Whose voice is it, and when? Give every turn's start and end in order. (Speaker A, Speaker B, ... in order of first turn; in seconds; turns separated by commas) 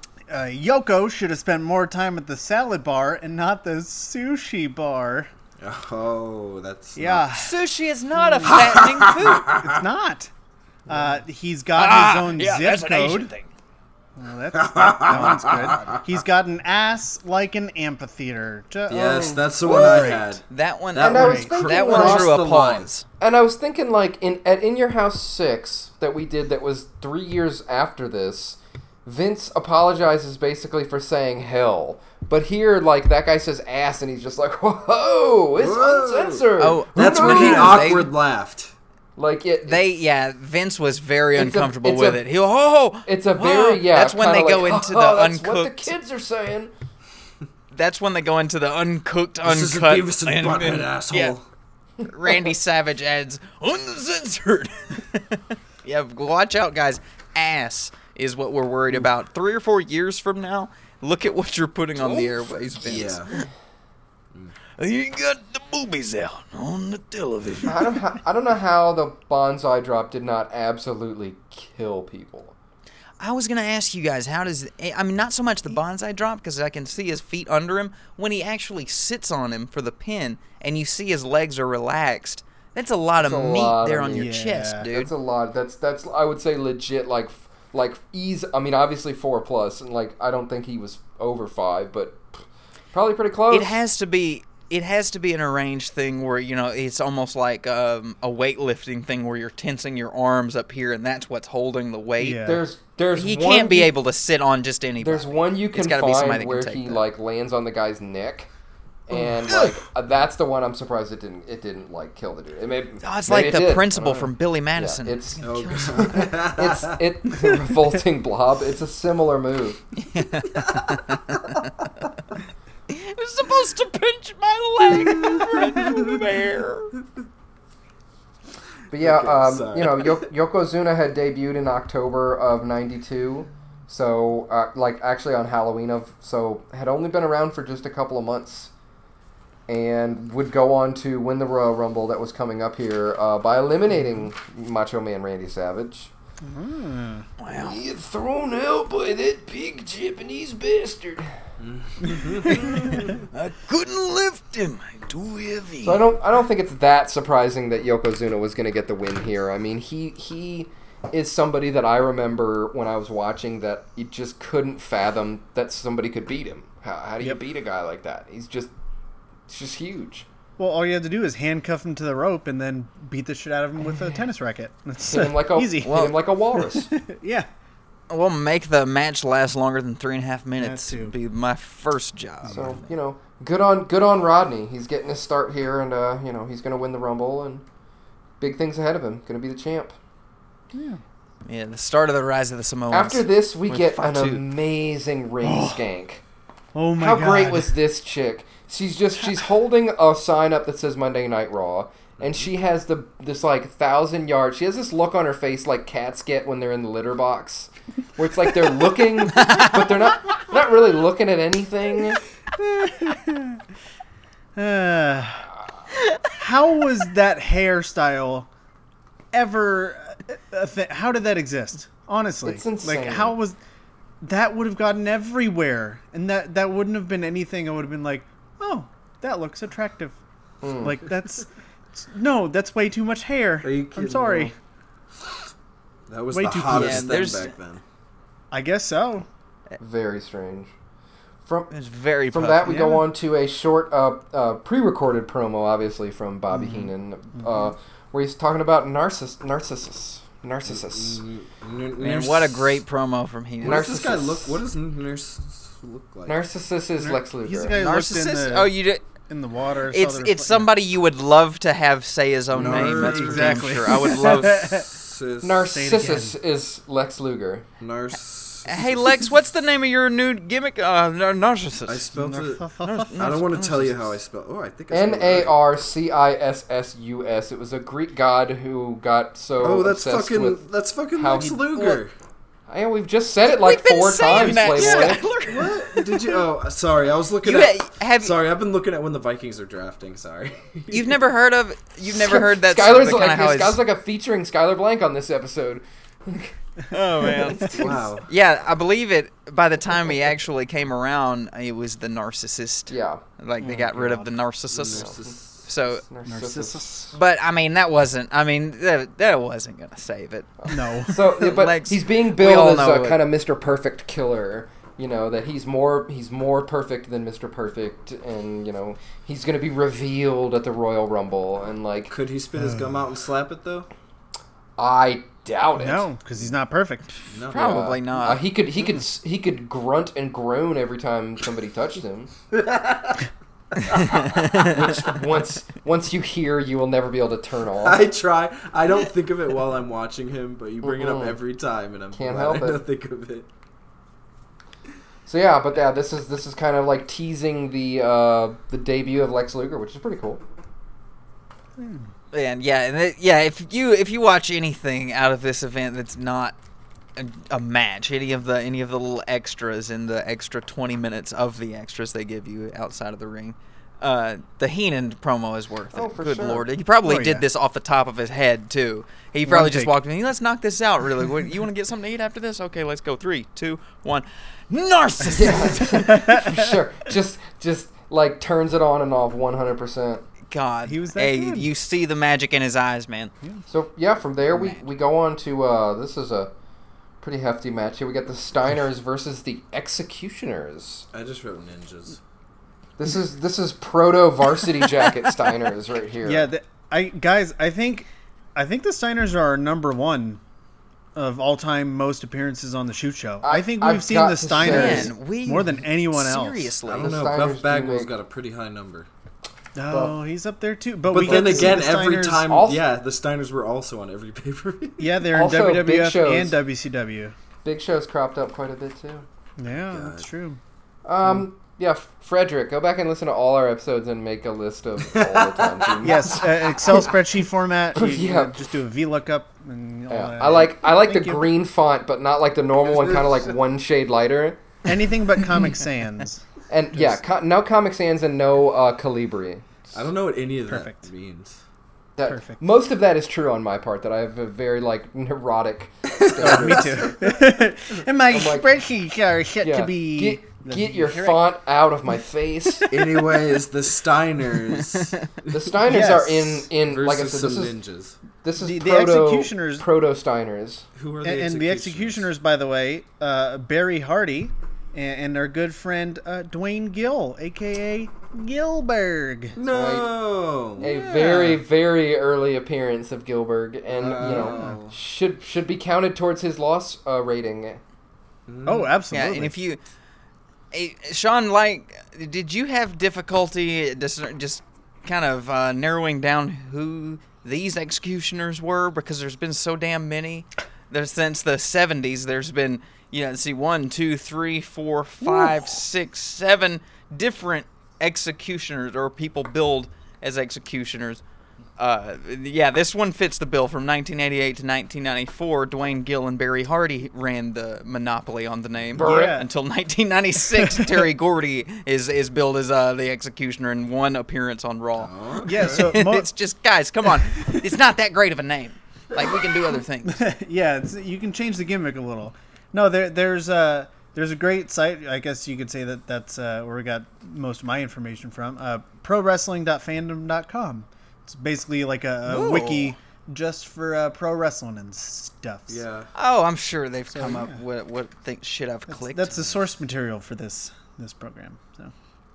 Speaker A: 0.3-5.3, Speaker B: 5.6-7.2, Speaker A: 7.0-7.5, Speaker C: 7.3-9.5, Speaker A: 8.2-8.8, Speaker B: 8.5-9.8, Speaker A: 9.6-10.3, Speaker A: 10.9-13.3, Speaker C: 11.8-13.5, Speaker A: 14.2-20.4, Speaker B: 14.5-16.0, Speaker B: 18.9-22.9, Speaker C: 20.0-23.0, Speaker D: 21.0-22.3, Speaker A: 21.1-21.5, Speaker D: 23.2-38.0, Speaker B: 35.6-38.7, Speaker C: 36.6-38.1, Speaker D: 39.2-39.8, Speaker C: 39.7-45.9, Speaker D: 41.3-42.2, Speaker D: 43.0-46.7, Speaker C: 47.7-51.4, Speaker B: 49.4-51.5, Speaker C: 52.0-63.4, Speaker D: 62.0-63.3, Speaker B: 62.8-63.3, Speaker C: 64.8-67.8, Speaker D: 67.6-72.5, Speaker C: 73.2-85.1, Speaker D: 83.2-84.3, Speaker A: 84.1-84.9, Speaker D: 84.9-92.3, Speaker D: 92.9-93.8, Speaker C: 93.5-102.4, Speaker A: 102.2-102.6, Speaker D: 102.4-103.9, Speaker C: 103.1-107.0, Speaker D: 105.0-108.5, Speaker D: 109.1-119.8, Speaker C: 109.5-109.7, Speaker C: 113.0-116.1, Speaker B: 115.4-117.0, Speaker C: 120.0-121.9, Speaker B: 120.5-121.2, Speaker C: 122.9-126.9, Speaker D: 128.9-138.7, Speaker B: 129.0-130.2, Speaker D: 139.7-146.1, Speaker A: 146.4-147.3, Speaker C: 147.4-147.8, Speaker D: 147.5-151.3, Speaker B: 151.6-153.2, Speaker C: 153.3-156.0, Speaker D: 155.8-168.7, Speaker D: 169.5-170.3, Speaker A: 170.6-177.5, Speaker D: 175.0-176.9, Speaker C: 175.8-176.1, Speaker C: 178.1-182.8, Speaker A: 180.6-181.1, Speaker A: 182.4-182.8, Speaker D: 182.5-187.6, Speaker D: 188.4-189.9, Speaker A: 190.7-191.0, Speaker C: 191.4-194.4, Speaker D: 192.9-196.2, Speaker A: 195.4-195.8, Speaker A: 196.7-197.7, Speaker D: 197.0-212.2, Speaker C: 209.3-209.9, Speaker A: 212.6-213.6, Speaker A: 214.6-215.5, Speaker C: 215.9-216.3, Speaker A: 216.3-218.5, Speaker A: 219.3-223.6, Speaker D: 222.4-223.3, Speaker A: 224.2-230.2, Speaker D: 230.6-231.0, Speaker A: 230.7-234.5, Speaker B: 233.6-234.5, Speaker B: 236.1-237.8, Speaker A: 236.3-237.1, Speaker C: 236.7-237.5, Speaker A: 238.5-239.2, Speaker D: 239.8-240.7, Speaker C: 241.7-242.8, Speaker D: 242.3-251.2, Speaker A: 242.7-243.1, Speaker A: 246.5-246.9, Speaker B: 250.7-252.8, Speaker C: 252.0-253.9, Speaker B: 253.6-256.4, Speaker D: 253.6-254.6, Speaker D: 256.2-257.8, Speaker A: 257.0-258.7, Speaker C: 257.7-259.0, Speaker A: 259.3-260.7, Speaker C: 259.9-264.8, Speaker B: 262.5-265.6, Speaker A: 262.5-264.9, Speaker D: 265.4-267.6, Speaker A: 265.7-266.4, Speaker B: 267.8-269.3, Speaker C: 268.6-272.1, Speaker B: 271.9-275.5, Speaker A: 272.1-273.3, Speaker C: 272.8-274.1, Speaker D: 274.9-280.6, Speaker B: 279.6-282.1, Speaker D: 281.1-281.9, Speaker D: 282.7-285.2, Speaker C: 283.4-286.1, Speaker A: 284.3-285.2, Speaker B: 285.4-291.2, Speaker C: 287.4-288.4, Speaker C: 290.9-293.8, Speaker D: 292.1-296.5, Speaker C: 296.9-306.0, Speaker D: 297.3-298.0, Speaker B: 297.7-298.3, Speaker D: 302.9-303.2, Speaker A: 303.6-304.3, Speaker B: 304.7-305.6, Speaker D: 304.9-305.3, Speaker D: 305.9-307.1, Speaker A: 306.2-307.1, Speaker C: 307.1-310.5, Speaker D: 310.6-322.1, Speaker A: 310.7-311.2, Speaker C: 311.3-313.2, Speaker B: 322.1-323.9, Speaker A: 322.6-322.9, Speaker D: 324.8-326.1, Speaker A: 325.8-327.1, Speaker B: 327.3-327.9, Speaker C: 327.5-328.4, Speaker D: 327.5-332.3, Speaker B: 332.5-334.4, Speaker C: 333.9-334.9, Speaker D: 334.6-338.0, Speaker B: 337.8-343.5, Speaker D: 340.8-341.4, Speaker D: 342.1-342.8, Speaker D: 345.3-350.4, Speaker A: 351.8-352.1, Speaker C: 352.3-356.6, Speaker C: 357.1-376.1, Speaker D: 365.9-366.7, Speaker A: 367.0-367.4, Speaker A: 369.4-369.9, Speaker D: 375.3-380.2, Speaker A: 375.9-376.7, Speaker C: 380.5-383.3, Speaker A: 380.9-381.7, Speaker D: 383.7-386.5, Speaker C: 384.5-384.8, Speaker D: 387.2-391.0, Speaker B: 391.1-392.2, Speaker D: 393.0-396.5, Speaker A: 396.2-400.4, Speaker A: 401.1-406.7, Speaker D: 403.4-405.1, Speaker C: 404.5-407.2, Speaker B: 406.9-409.1, Speaker D: 407.0-408.1, Speaker A: 409.7-412.5, Speaker B: 411.1-415.1, Speaker D: 411.2-411.9, Speaker D: 412.4-412.8, Speaker A: 415.0-417.3, Speaker D: 415.3-416.6, Speaker D: 417.6-419.2, Speaker A: 419.6-420.6, Speaker B: 419.9-420.3, Speaker D: 421.0-427.1, Speaker B: 425.0-426.3, Speaker A: 426.0-431.4, Speaker D: 427.9-428.6, Speaker D: 430.1-434.6, Speaker B: 432.9-433.5, Speaker A: 434.9-436.4, Speaker D: 436.7-439.6, Speaker B: 439.9-441.6, Speaker A: 440.7-441.1, Speaker D: 442.1-447.2, Speaker A: 442.2-442.6, Speaker B: 446.2-447.2, Speaker A: 446.4-451.4, Speaker D: 448.3-448.7, Speaker D: 449.6-452.9, Speaker A: 452.8-453.2, Speaker B: 452.9-455.7, Speaker D: 455.5-457.8, Speaker A: 455.8-456.6, Speaker B: 456.8-458.2, Speaker D: 458.4-460.9, Speaker A: 458.6-459.9, Speaker B: 460.9-462.3, Speaker A: 461.2-469.6, Speaker B: 469.6-471.6, Speaker D: 469.6-470.1, Speaker D: 470.8-477.8, Speaker A: 470.8-471.3, Speaker B: 473.9-474.9, Speaker A: 474.2-474.8, Speaker B: 478.5-478.9, Speaker A: 478.6-479.5, Speaker C: 479.1-479.8, Speaker C: 480.7-501.2, Speaker A: 495.2-495.7, Speaker C: 501.8-520.2, Speaker D: 508.9-509.4, Speaker A: 509.0-509.5, Speaker A: 510.6-511.0, Speaker B: 515.0-515.9, Speaker A: 515.4-516.3, Speaker A: 520.0-535.8, Speaker C: 532.2-533.0, Speaker B: 535.7-536.1, Speaker C: 536.1-539.6, Speaker A: 537.1-537.6, Speaker A: 538.9-541.9